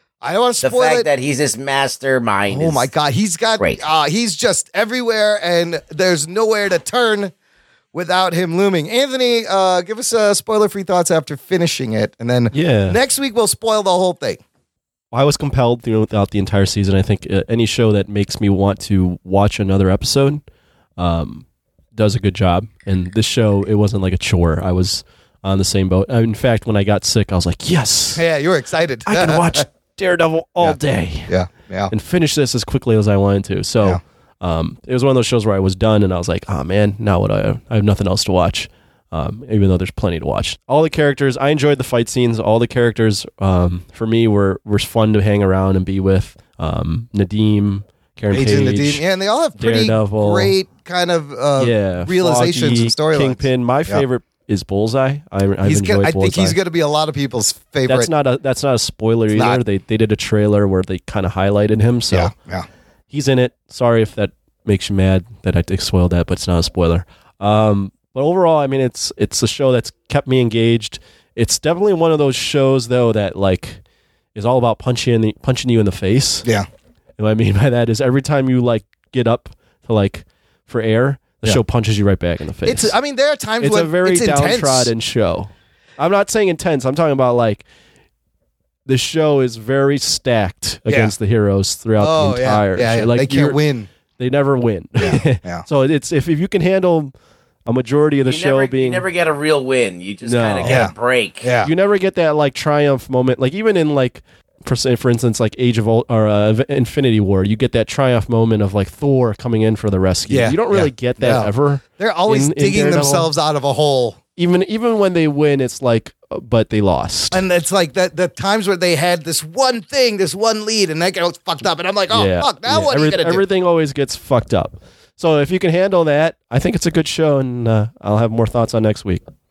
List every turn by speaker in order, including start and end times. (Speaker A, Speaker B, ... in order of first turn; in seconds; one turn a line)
Speaker A: 0.2-1.1
Speaker B: 0.6-2.9
Speaker A: 2.5-7.3
Speaker A: 7.9-14.4
Speaker C: 12.5-13.0
Speaker C: 15.1-20.4
Speaker C: 21.0-28.2
Speaker A: 28.1-29.6
Speaker C: 29.1-31.3
Speaker A: 30.6-31.9
Speaker C: 31.9-49.0
Speaker A: 48.3-54.0
Speaker C: 49.6-50.5
Speaker C: 51.6-56.6
Speaker A: 55.6-58.1
Speaker C: 57.9-62.3
Speaker A: 59.3-59.6
Speaker A: 62.1-62.7
Speaker C: 63.1-73.8
Speaker C: 74.3-76.4
Speaker C: 77.2-82.9
Speaker A: 82.6-84.9
Speaker C: 83.6-87.6
Speaker C: 88.8-93.6
Speaker A: 90.9-91.1
Speaker A: 92.0-93.9
Speaker C: 94.2-97.1
Speaker A: 95.0-95.6
Speaker C: 97.7-99.0
Speaker B: 98.2-101.4
Speaker C: 100.2-100.8
Speaker A: 100.6-100.9
Speaker A: 101.4-101.7
Speaker C: 101.6-113.3
Speaker A: 110.3-114.2
Speaker C: 114.3-117.4
Speaker A: 117.3-123.4
Speaker C: 122.1-129.2